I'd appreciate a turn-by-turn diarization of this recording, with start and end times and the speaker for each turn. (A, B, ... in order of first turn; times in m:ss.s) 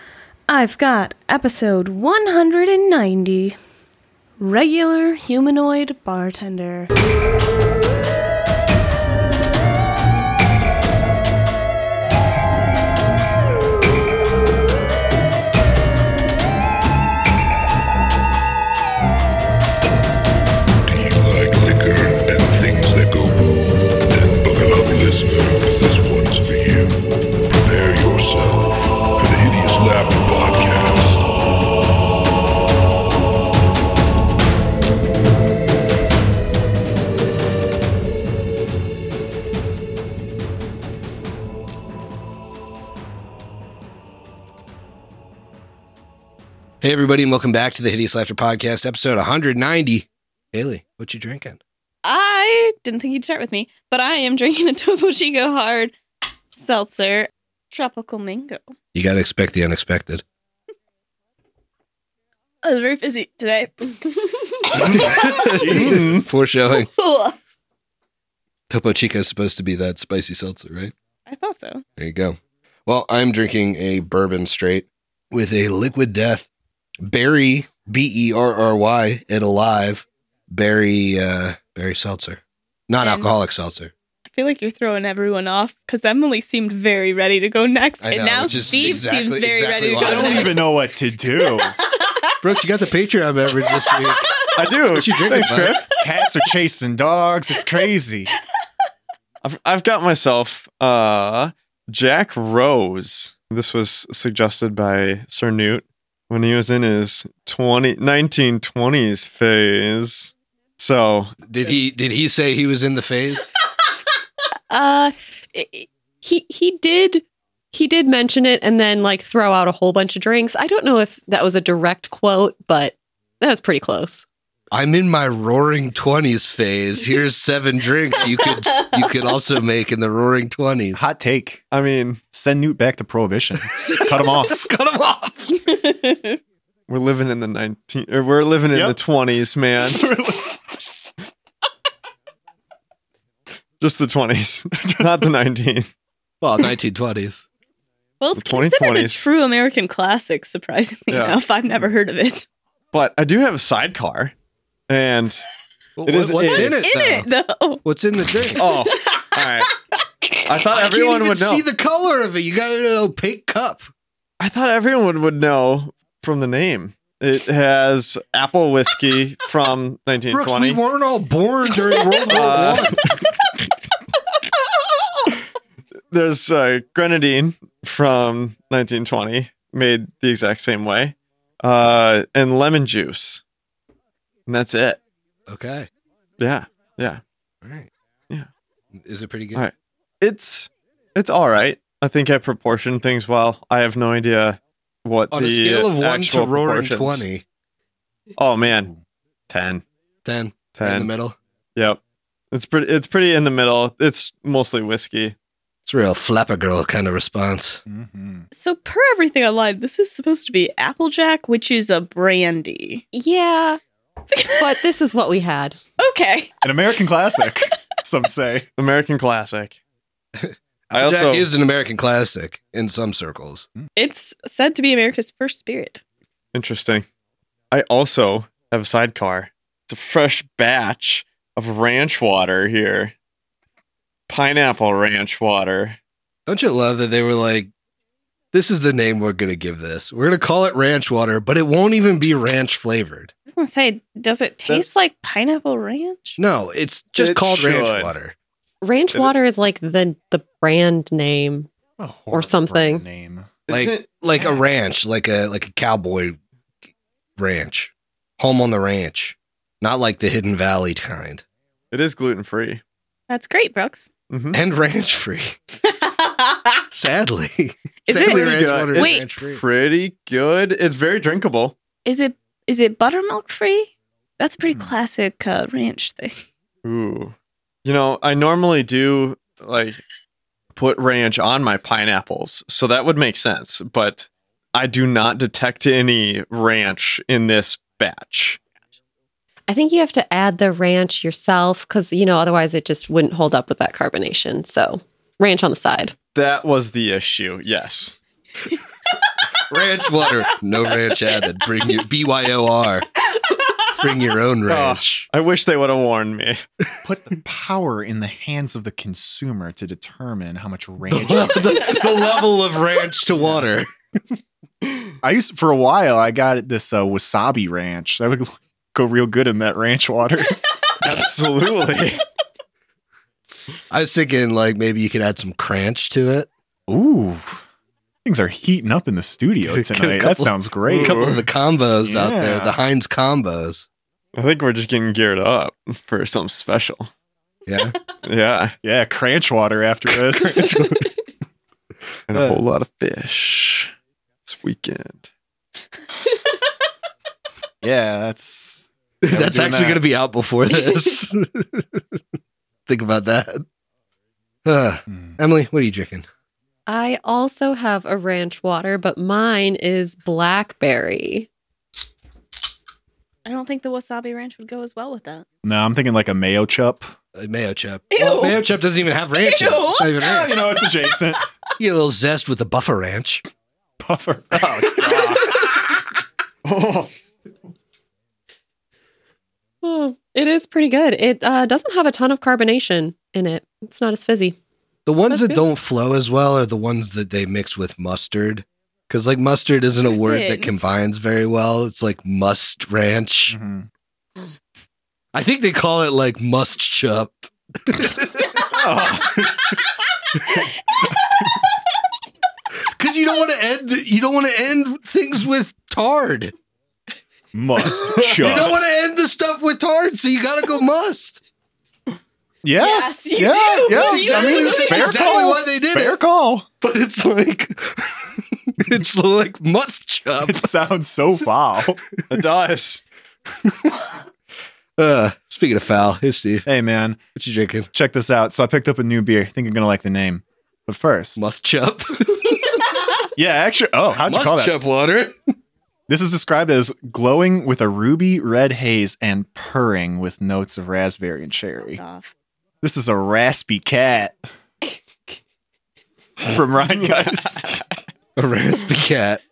0:00.5-0:03.6 A
0:04.4-0:06.9 A
0:20.8-0:31.3 B
0:46.8-0:51.6 C
0:52.0-0:55.9 D
0:56.5-0:58.7 D
0:58.9-1:00.2 C
1:02.6-1:05.6 D
1:04.7-1:06.9 C
1:05.4-1:06.3 E
1:05.7-1:06.3 F
1:06.7-1:07.4 D
1:08.7-1:10.9 C
1:11.3-1:11.8 D
1:12.0-1:16.5 C
1:17.0-1:23.9 C
1:23.0-1:23.3 D
1:24.3-1:30.7 D
1:28.0-1:30.6 C
1:30.0-1:31.8 E
1:32.4-1:35.8 C
1:33.9-1:34.4 D
1:34.6-1:36.0 F
1:36.0-1:38.3 E
1:39.4-1:51.3 F
1:51.4-1:53.5 C
1:54.7-2:04.2 G
2:04.7-2:11.0 C
2:10.9-2:11.6 E
2:11.7-2:12.2 F
2:12.3-2:14.7 E
2:13.9-2:15.6 C
2:15.7-2:16.3 D
2:16.9-2:20.0 F
2:19.9-2:20.8 E
2:23.8-2:25.9 F
2:24.8-2:25.3 E
2:26.4-2:27.4 C
2:28.2-2:32.5 D
2:28.4-2:29.3 F
2:31.1-2:31.4 F
2:32.9-2:34.3 F
2:34.9-2:35.5 F
2:36.0-2:37.3 C
2:36.1-2:36.8 F
2:36.5-2:37.8 D
2:37.8-2:38.7 C
2:38.6-2:39.7 F
2:38.8-2:39.4 D
2:40.4-2:41.7 F
2:40.7-2:43.9 C
2:44.4-2:50.8 F
2:50.3-2:53.0 C
2:52.3-2:53.1 F
2:56.1-3:03.4 F
3:04.5-3:05.0 F
3:05.5-3:05.9 C
3:06.4-3:07.2 F
3:07.6-3:07.9 C
3:09.0-3:09.6 C
3:09.6-3:17.2 F
3:15.3-3:17.4 C
3:18.4-3:18.9 F
3:19.5-3:19.8 F
3:20.2-3:21.4 C
3:20.8-3:21.1 F
3:21.8-3:22.0 F
3:22.5-3:25.4 F
3:25.9-3:27.8 C
3:27.9-3:28.5 E
3:28.5-3:33.0 D
3:33.1-3:33.8 G
3:34.3-3:34.8 D
3:34.6-3:35.8 G
3:36.0-3:36.6 D
3:36.6-3:38.7 E
3:38.8-3:39.8 F
3:40.4-3:43.7 C
3:40.9-3:41.5 F
3:44.0-3:46.0 D
3:46.5-3:47.1 F
3:47.7-3:53.1 F
3:54.3-3:56.0 F
3:56.5-3:57.7 C
3:58.5-4:03.3 C
4:03.5-4:06.4 D
4:06.4-4:08.4 C
4:07.2-4:08.1 F
4:08.8-4:11.7 G
4:12.0-4:13.5 E
4:12.3-4:13.0 G
4:13.7-4:14.4 F
4:13.7-4:16.4 C
4:17.4-4:21.4 C
4:21.9-4:22.8 F
4:23.3-4:24.1 D
4:24.3-4:24.6 F
4:24.5-4:25.6 C
4:26.0-4:26.7 D
4:26.9-4:29.6 C
4:28.1-4:29.2 D
4:28.1-4:31.8 F
4:32.0-4:36.4 D
4:36.8-4:40.0 F
4:40.8-4:48.6 F
4:49.7-4:56.2 G
4:56.4-4:58.2 F
4:59.7-5:03.1 C
5:03.9-5:05.3 C
5:04.7-5:06.6 F
5:07.0-5:11.9 E
5:11.1-5:13.9 C
5:15.2-5:20.6 E
5:21.0-5:22.2 F
5:23.9-5:26.5 C
5:26.9-5:27.6 E
5:28.2-5:31.3 E
5:29.7-5:33.9 C
5:30.9-5:31.5 F
5:32.0-5:32.8 E
5:34.4-5:37.1 F
5:37.7-5:38.0 C
5:38.2-5:38.8 F
5:38.8-5:41.0 E
5:40.4-5:41.0 C
5:42.3-5:43.9 F
5:42.3-5:42.6 C
5:44.4-5:45.2 F
5:47.8-5:50.0 E
5:49.2-5:52.0 C
5:52.9-5:53.6 C
5:54.6-5:56.3 C
5:55.1-5:55.4 E
5:56.9-6:01.5 G
6:03.4-6:05.4 D
6:05.6-6:07.1 E
6:07.3-6:10.6 C
6:08.1-6:08.6 D
6:09.3-6:10.2 D
6:10.2-6:11.4 E
6:11.8-6:13.4 C
6:14.0-6:15.6 E
6:16.6-6:17.1 F
6:19.8-6:24.6 G
6:25.1-6:33.6 C
6:25.3-6:25.6 G
6:30.2-6:30.8 D
6:33.5-6:33.9 E
6:35.3-6:38.7 C
6:38.7-6:39.5 F
6:43.0-6:46.5 C
6:47.5-6:48.8 E
6:48.3-6:51.4 C
6:52.6-6:56.7 E
6:52.7-6:55.5 D
6:53.9-6:56.2 C
6:56.8-7:00.7 C
7:00.5-7:02.0 E
7:02.3-7:03.0 F
7:05.0-7:06.7 C
7:06.7-7:07.2 E
7:07.4-7:07.9 C
7:07.9-7:11.4 E
7:11.4-7:12.8 C
7:13.4-7:14.7 E
7:14.2-7:15.4 C
7:16.1-7:22.0 E
7:21.9-7:22.3 D
7:22.8-7:24.4 E
7:26.4-7:27.8 E
7:27.0-7:27.8 F
7:28.4-7:29.4 C